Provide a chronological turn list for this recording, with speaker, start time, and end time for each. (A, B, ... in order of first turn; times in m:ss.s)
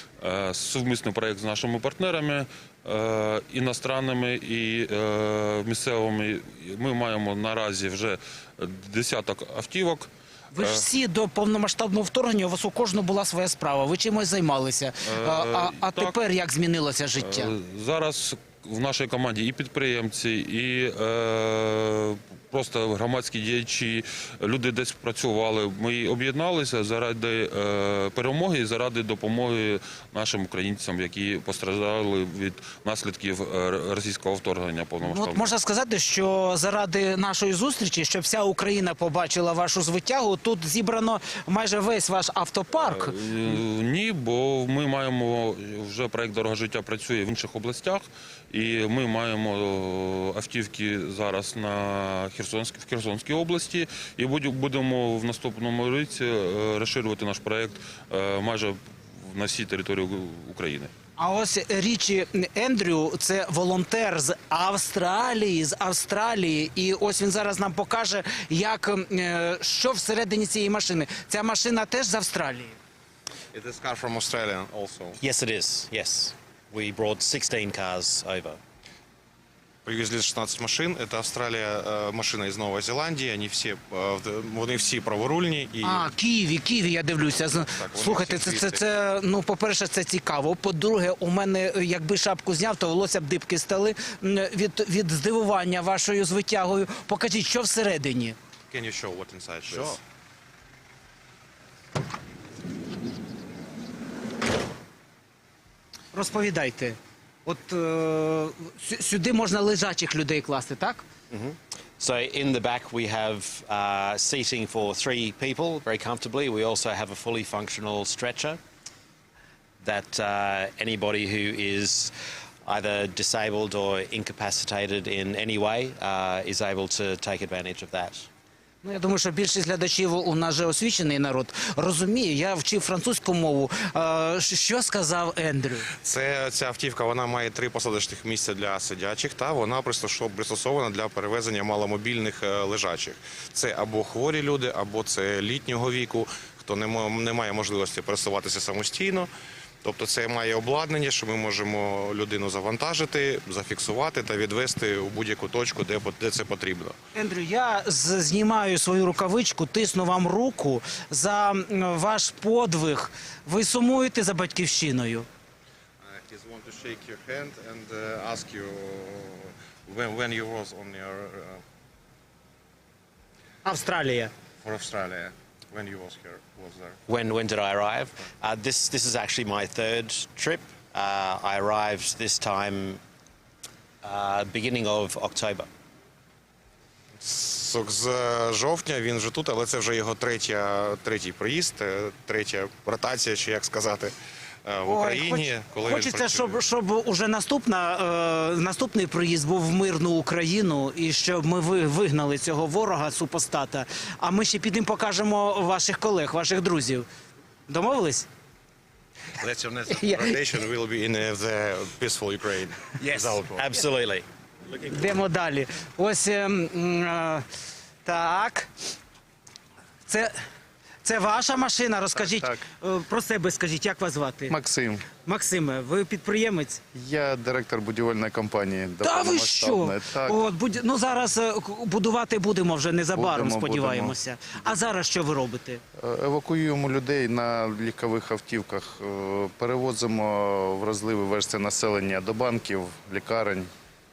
0:00.2-0:10.8 A
0:10.5-0:17.5 B
0:15.0-0:16.2 A
0:17.2-0:35.5 A
0:35.0-0:43.2 B
0:42.8-1:00.9 A
1:01.2-1:12.8 B
1:13.5-1:15.2 C
1:15.2-1:18.6 D
1:19.8-1:26.1 C
1:25.8-1:38.4 B
1:27.6-1:28.8 C
1:38.7-1:40.0 C
1:46.1-1:51.0 B
1:51.3-1:58.6 D
1:59.8-2:08.3 D
2:08.8-2:15.8 B
2:16.0-2:29.3 C
2:29.8-2:36.9 C
2:37.1-2:45.3 B
2:46.0-2:51.6 C
2:53.6-2:54.3 B
2:54.6-2:57.0 C
2:57.1-3:03.0 D
3:04.0-3:05.7 D
3:07.2-3:14.1 C
3:14.6-3:16.6 C
3:14.8-3:27.0 B
3:27.7-3:28.3 B
3:29.4-3:33.7 C
3:30.0-3:30.3 B
3:33.2-3:34.2 D
3:34.8-3:37.4 B
3:38.0-3:38.7 B
3:40.1-3:40.3 B
3:41.0-3:44.6 B
3:42.1-3:42.6 E
3:44.5-3:45.1 E
3:45.2-3:46.8 B
3:46.9-3:50.4 E
3:49.0-3:55.8 B
3:53.1-3:54.2 E
3:56.0-4:03.7 E